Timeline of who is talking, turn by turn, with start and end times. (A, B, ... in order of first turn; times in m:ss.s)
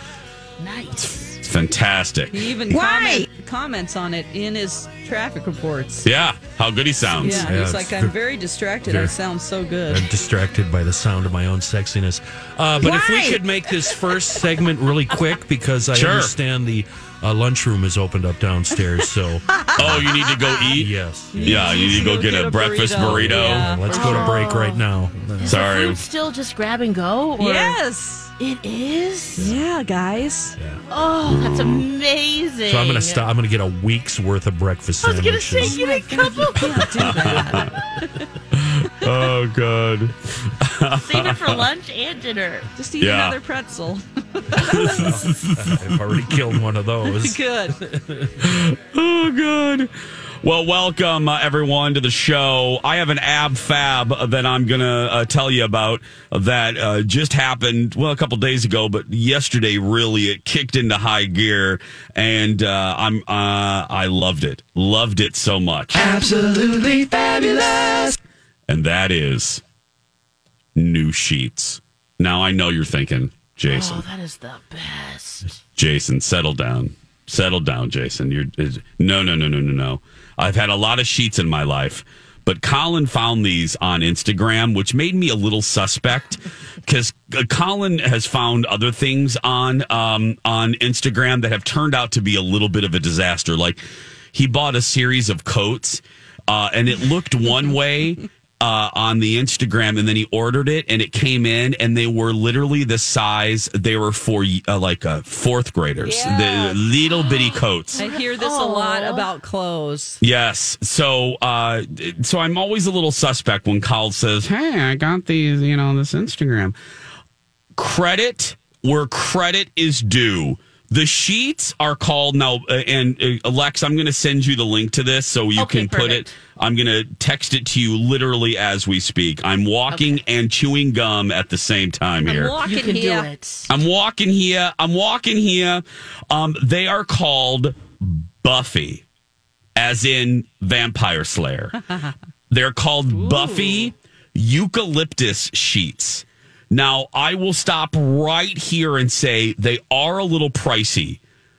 0:00.6-0:01.4 A
0:01.0-0:02.4 B
0:02.3-0:06.1 C
0:06.0-0:07.5 B
0:07.2-0:10.1 C
0:07.3-0:08.2 D
0:08.8-0:09.1 D
0:09.9-0:20.2 D
0:12.8-0:13.4 C
0:15.9-0:16.3 B
0:19.8-0:20.9 B
0:20.8-0:21.8 D
0:21.3-0:24.4 C
0:21.4-0:23.8 B
0:23.0-0:25.5 D
0:23.9-0:24.8 A
0:25.4-0:27.8 A
0:25.4-0:26.0 B
0:27.4-0:28.3 C
0:28.4-0:29.5 A
0:29.4-0:29.7 D
0:29.4-0:30.6 C
0:30.9-0:33.3 A
0:32.7-0:35.8 D
0:35.0-0:36.8 A
0:35.6-0:38.2 C
0:38.6-0:41.6 B
0:40.9-0:42.7 A
0:42.8-0:45.2 C
0:43.0-0:43.4 B
0:44.6-0:46.4 B
0:44.8-0:48.4 D
0:47.1-0:47.8 C
0:48.4-0:49.9 B
0:50.4-1:06.0 B
1:06.0-1:08.2 E
1:08.7-1:09.6 B
1:10.8-1:14.0 B
1:13.7-1:15.5 A
1:15.8-1:48.0 B
1:46.0-1:46.8 C
1:47.1-1:49.3 A
1:48.0-1:50.2 C
1:50.2-1:56.8 B
1:57.8-2:12.6 B
2:05.6-2:06.4 A
2:09.9-2:10.2 A
2:12.3-2:13.3 C
2:12.6-2:13.7 A
2:13.7-2:19.0 B
2:19.8-2:21.8 B
2:22.5-2:31.2 B
2:23.1-2:23.9 A